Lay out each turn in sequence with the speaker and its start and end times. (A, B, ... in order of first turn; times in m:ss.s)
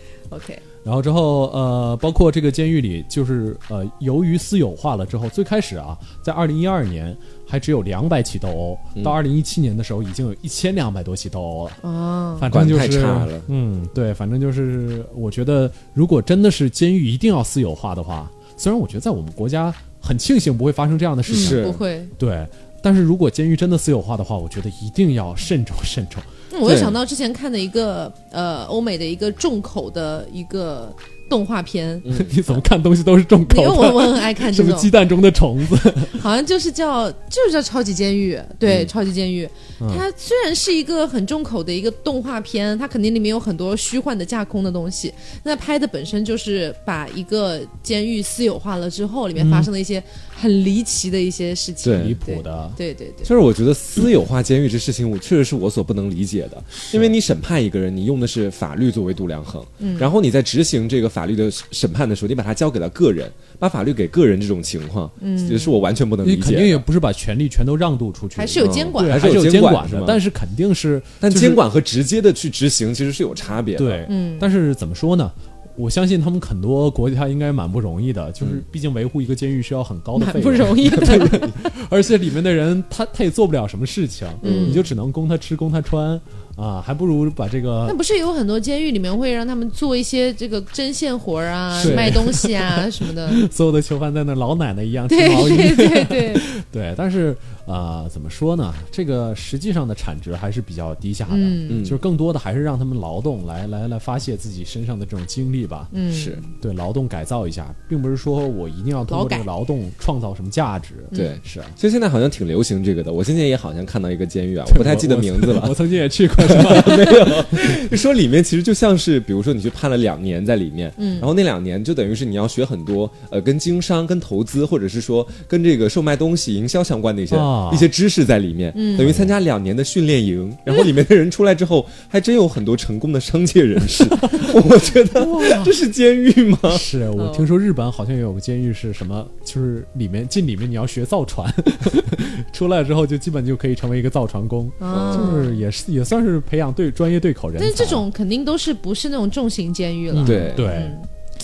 0:00.3-0:00.6 A
0:00.8-0:11.8 B
0:11.8-0:12.5 A
0:12.4-0:26.3 B
0:12.5-0:13.5 C
0:21.3-0:21.8 C
0:21.3-0:22.1 A
0:26.5-0:32.5 A
0:26.6-0:27.0 C
0:32.0-0:32.3 C
0:32.1-0:36.2 B
0:33.5-0:34.9 A
0:36.1-0:53.3 A
0:38.6-0:38.9 C
0:49.4-0:49.7 B
0:51.8-0:52.2 C
0:51.9-0:52.8 B
0:53.2-1:06.8 C
0:56.7-0:57.1 B
0:59.8-1:00.1 A
1:05.2-1:05.8 A
1:06.2-1:11.6 B
1:08.4-1:09.2 A
1:08.6-1:10.2 C
1:11.2-1:14.1 C
1:13.8-1:28.0 B
1:14.1-1:14.5 A
1:20.2-1:21.5 A
1:21.1-1:21.3 C
1:24.4-1:24.8 C
1:24.4-1:24.9 A
1:27.8-1:33.4 A
1:31.7-1:46.0 B
1:31.8-1:32.2 C
1:35.1-1:36.4 A
1:41.3-1:41.9 A
1:41.7-1:42.0 C
1:45.9-1:46.5 A
1:46.1-1:46.4 C
1:46.5-1:51.8 B
1:49.1-1:49.5 A
1:51.1-1:51.4 A
1:51.1-1:55.8 C
1:54.7-1:57.8 B
1:56.4-2:16.8 C
2:01.0-2:01.3 A
2:07.3-2:07.9 B
2:08.7-2:09.1 A
2:09.0-2:09.3 B
2:14.2-2:14.6 B
2:15.1-2:15.7 B
2:16.7-2:28.0 B
2:17.2-2:17.5 A
2:24.8-2:25.6 A
2:24.9-2:25.4 C
2:27.6-2:31.0 A
2:30.1-2:31.0 B
2:30.2-2:30.7 C